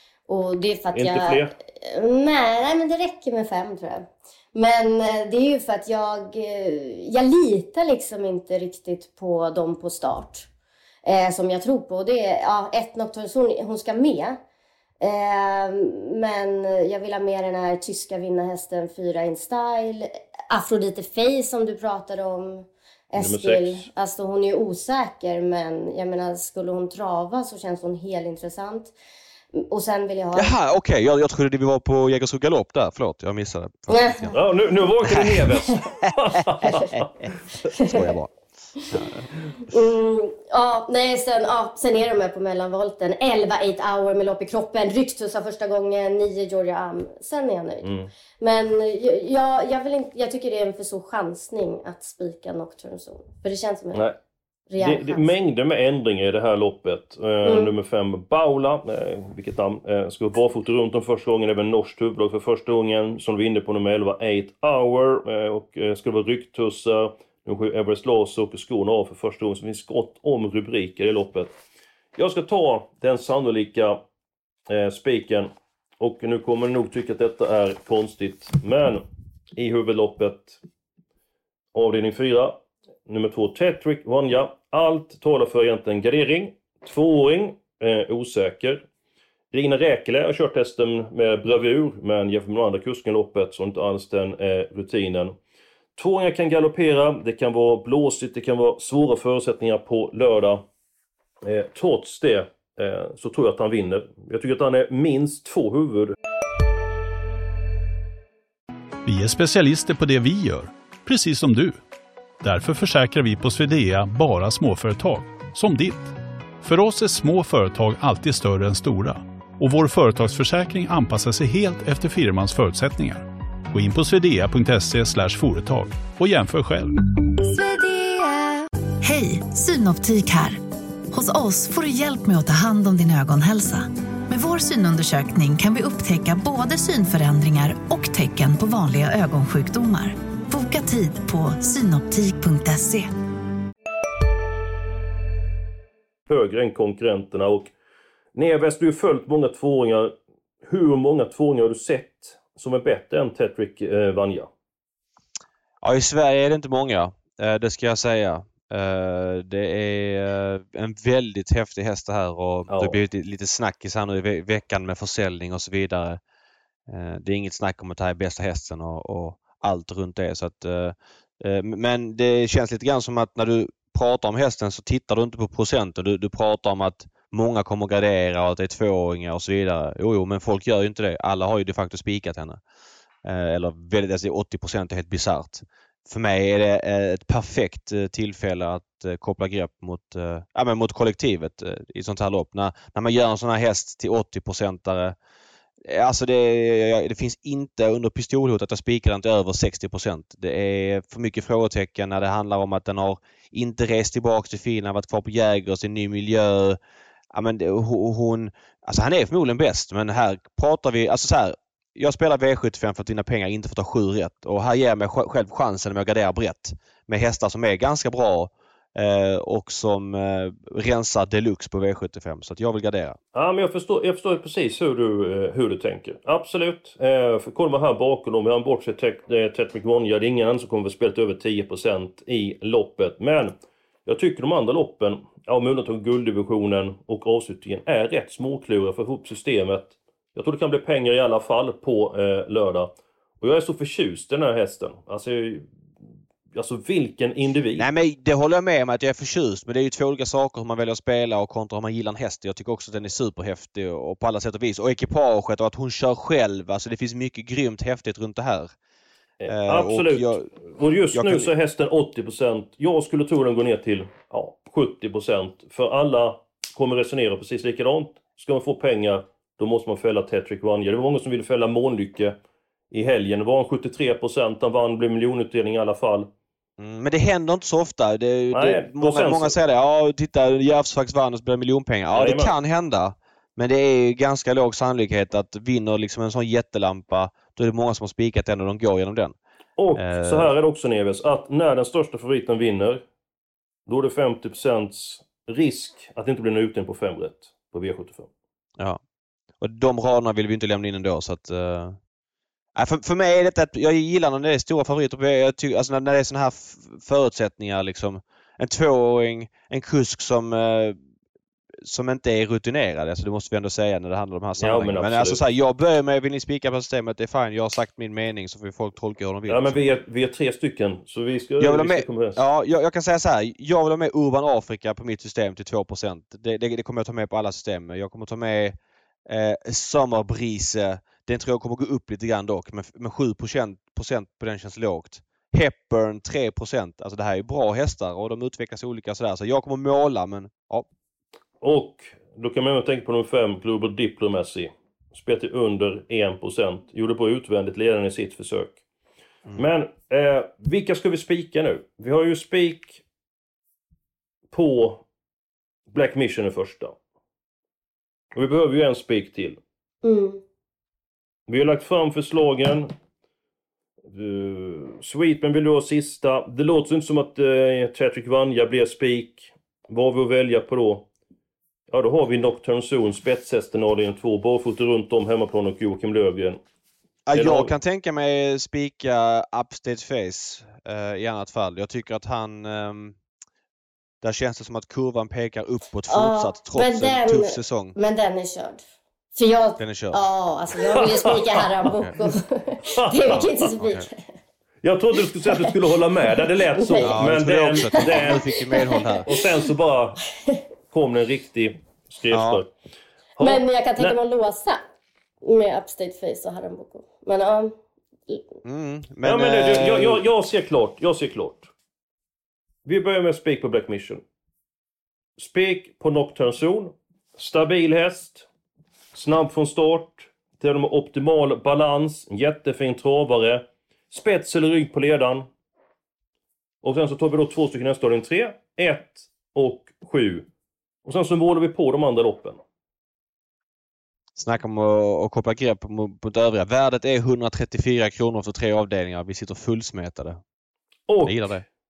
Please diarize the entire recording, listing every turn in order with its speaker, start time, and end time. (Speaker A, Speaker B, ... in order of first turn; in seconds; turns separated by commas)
Speaker A: 0.3-10.5, Speaker B: 0.9-1.5, Speaker A: 11.0-14.4, Speaker A: 15.0-28.9, Speaker B: 23.1-23.9, Speaker A: 29.5-30.5, Speaker C: 30.3-34.4, Speaker A: 33.9-34.4, Speaker B: 34.3-37.1, Speaker C: 35.0-35.5, Speaker C: 36.0-37.0, Speaker C: 37.8-38.3, Speaker C: 38.9-39.3, Speaker A: 39.7-47.9, Speaker B: 47.8-48.1, Speaker A: 48.4-54.0, Speaker A: 54.7-55.2, Speaker B: 54.8-71.5, Speaker A: 57.4-57.7, Speaker B: 72.1-74.0, Speaker B: 74.7-79.0, Speaker B: 79.5-80.6, Speaker B: 81.7-88.8, Speaker B: 89.5-95.3, Speaker B: 96.0-100.6, Speaker B: 101.4-106.1, Speaker D: 109.0-111.8, Speaker D: 112.4-126.9, Speaker E: 127.4-130.6, Speaker E: 131.1-143.1, Speaker B: 146.3-147.7, Speaker B: 148.3-150.1, Speaker B: 150.7-154.5, Speaker C: 155.8-166.2, Speaker B: 162.7-163.0, Speaker C: 166.9-182.6, Speaker C: 183.2-195.2, Speaker C: 195.8-206.8, Speaker C: 207.3-223.2, Speaker B: 223.3-245.7, Speaker B: 246.5-247.9, Speaker C: 247.8-258.7, Speaker B: 259.4-272.4, Speaker C: 259.5-260.5, Speaker C: 261.1-261.5, Speaker B: 272.9-276.3, Speaker C: 276.8-289.4, Speaker B: 278.5-279.6, Speaker B: 282.1-282.5, Speaker B: 289.8-293.0, Speaker C: 289.9-290.5, Speaker B: 293.9-298.3, Speaker C: 299.6-302.0, Speaker C: 302.7-311.0, Speaker C: 311.8-319.8, Speaker B: 314.6-315.4, Speaker B: 319.5-322.4, Speaker C: 321.6-340.9, Speaker B: 341.6-348.8, Speaker B: 349.6-353.0, Speaker B: 354.5-355.0, Speaker B: 355.9-356.9, Speaker B: 358.3-359.6, Speaker A: 360.0-360.4, Speaker B: 361.5-362.9, Speaker B: 364.1-371.1, Speaker B: 371.9-376.6, Speaker C: 377.2-383.2, Speaker B: 377.3-377.7, Speaker C: 384.2-388.0, Speaker A: 386.1-388.8, Speaker A: 389.3-394.2, Speaker C: 389.8-390.2, Speaker B: 390.9-391.6, Speaker B: 392.9-393.7, Speaker C: 393.8-394.1, Speaker B: 394.8-398.4, Speaker A: 395.4-395.7, Speaker A: 396.4-397.2, Speaker C: 397.0-399.3, Speaker A: 397.8-399.4, Speaker B: 399.1-400.2, Speaker B: 400.9-402.7, Speaker C: 402.3-402.6, Speaker B: 403.4-404.1, Speaker A: 403.4-404.8, Speaker A: 405.4-407.8, Speaker C: 408.6-410.2, Speaker B: 409.2-411.7, Speaker B: 412.8-414.2, Speaker B: 415.4-418.4, Speaker B: 419.1-425.5, Speaker B: 426.8-430.5, Speaker B: 431.0-432.6, Speaker C: 434.4-440.4, Speaker B: 441.1-441.5, Speaker C: 441.2-441.6